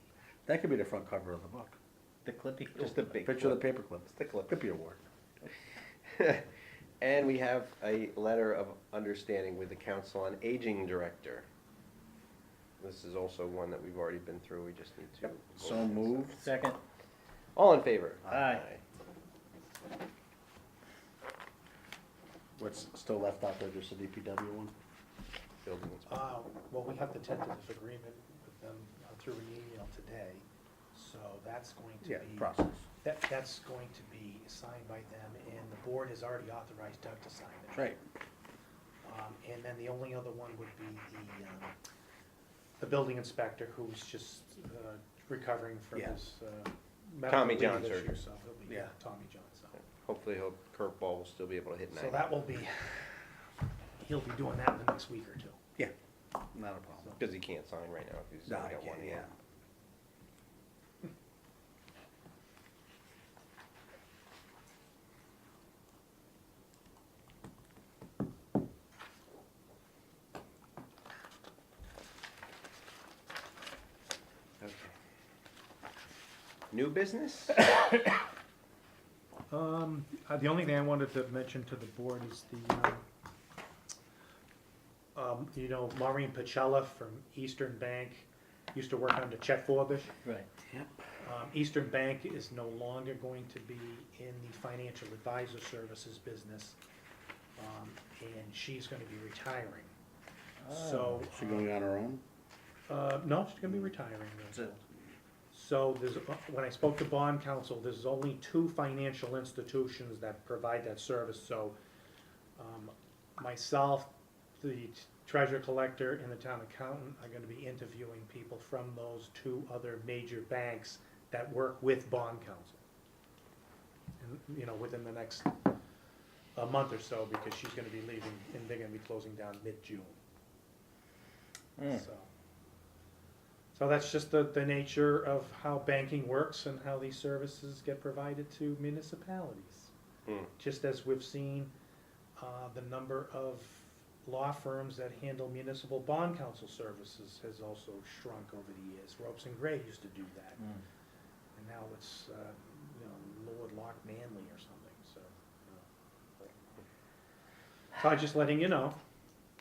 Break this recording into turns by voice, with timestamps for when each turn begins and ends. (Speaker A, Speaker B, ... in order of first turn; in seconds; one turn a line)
Speaker A: 0.5-1.8
Speaker B: 2.2-3.3
Speaker C: 2.8-4.5
Speaker A: 3.3-5.0
Speaker C: 6.2-6.4
Speaker C: 7.0-11.4
Speaker C: 12.8-16.3
Speaker A: 15.2-16.5
Speaker B: 16.4-16.8
Speaker C: 17.6-18.8
Speaker B: 18.3-18.7
Speaker A: 22.6-24.7
Speaker C: 25.6-26.1
Speaker D: 26.1-37.9
Speaker A: 32.0-32.9
Speaker A: 37.7-38.0
Speaker D: 39.0-41.7
Speaker D: 42.8-49.8
Speaker C: 47.3-48.1
Speaker C: 50.0-52.3
Speaker D: 51.9-53.2
Speaker D: 54.0-55.6
Speaker A: 56.5-57.2
Speaker C: 57.2-59.3
Speaker A: 58.5-59.3
Speaker C: 74.6-74.9
Speaker C: 76.7-77.7
Speaker D: 79.5-83.0
Speaker D: 85.2-90.1
Speaker D: 91.2-96.8
Speaker D: 97.6-99.9
Speaker B: 100.6-101.1
Speaker D: 100.7-101.7
Speaker A: 101.3-102.2
Speaker D: 102.9-104.8
Speaker D: 105.5-111.8
Speaker D: 112.6-122.8
Speaker D: 124.2-125.5
Speaker D: 126.6-130.2
Speaker B: 131.8-132.0
Speaker D: 131.8-132.3
Speaker D: 133.7-139.9
Speaker D: 140.6-141.7
Speaker D: 142.4-150.7
Speaker D: 151.6-155.8
Speaker D: 158.0-159.0